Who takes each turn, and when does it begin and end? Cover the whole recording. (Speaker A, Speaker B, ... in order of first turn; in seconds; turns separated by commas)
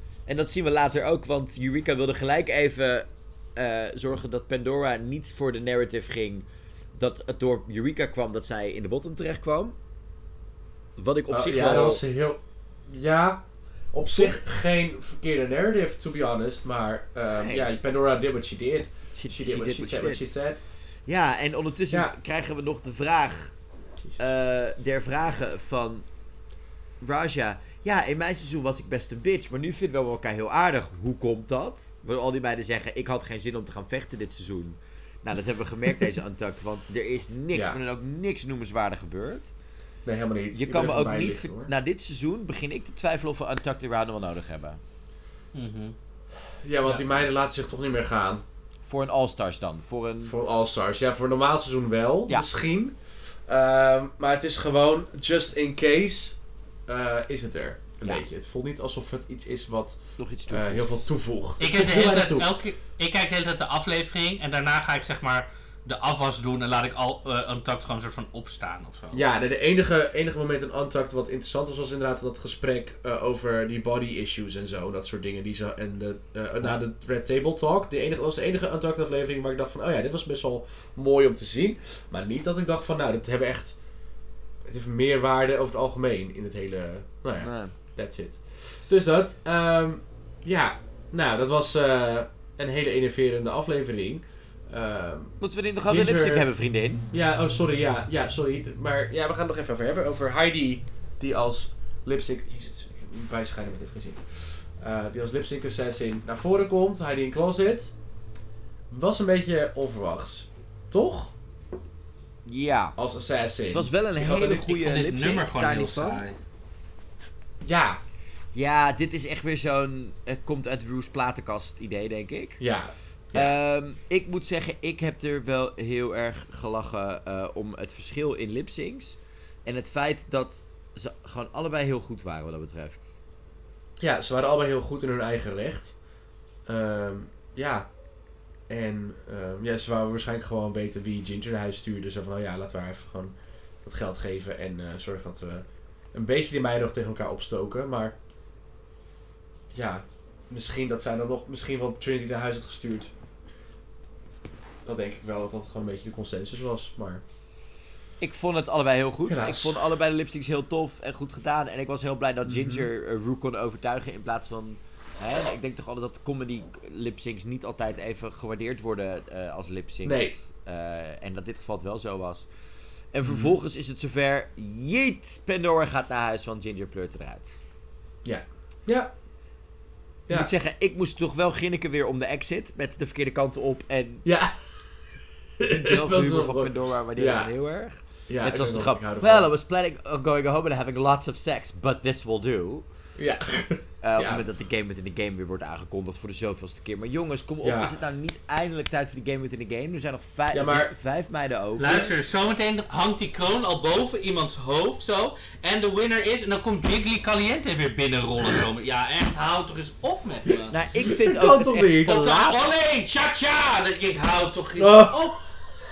Speaker A: 0.3-9.8, Speaker A: 11.0-12.0, Speaker B: 11.3-20.6, Speaker A: 17.4-17.7, Speaker A: 19.1-20.3, Speaker A: 20.8-23.5, Speaker A: 24.2-26.1, Speaker A: 27.0-39.5, Speaker B: 37.5-37.8, Speaker B: 40.0-41.7, Speaker A: 40.5-44.8, Speaker C: 45.5-45.9, Speaker B: 46.6-48.4, Speaker C: 46.8-47.2, Speaker A: 48.8-50.4, Speaker B: 50.2-53.0, Speaker B: 53.5-62.5, Speaker A: 60.2-61.1, Speaker C: 61.6-69.2, Speaker B: 69.1-83.8, Speaker B: 84.6-96.5, Speaker A: 87.4-87.7, Speaker A: 95.4-97.0, Speaker B: 97.1-107.9, Speaker B: 108.9-111.3, Speaker A: 112.4-113.0, Speaker B: 113.0-114.7, Speaker A: 113.7-116.2, Speaker C: 114.7-116.4, Speaker B: 117.6-118.0, Speaker A: 118.5-122.6, Speaker B: 122.6-123.5, Speaker A: 123.3-133.1, Speaker B: 134.0-135.9, Speaker B: 136.7-137.9, Speaker B: 138.7-148.2, Speaker B: 149.7-153.1, Speaker B: 154.8-157.2, Speaker A: 158.2-172.5, Speaker B: 159.3-159.8, Speaker B: 162.4-162.9, Speaker B: 170.0-170.3, Speaker A: 173.1-177.6, Speaker B: 173.2-173.6, Speaker B: 178.2-179.1, Speaker A: 180.3-184.2, Speaker B: 184.2-184.5, Speaker B: 185.6-187.5, Speaker A: 185.7-192.9, Speaker B: 188.3-189.5, Speaker B: 193.2-194.4, Speaker A: 194.0-202.1, Speaker B: 197.6-197.9, Speaker B: 200.5-200.9, Speaker C: 201.8-210.7, Speaker A: 210.7-212.8, Speaker B: 211.0-212.1, Speaker C: 212.0-215.5, Speaker B: 214.8-215.6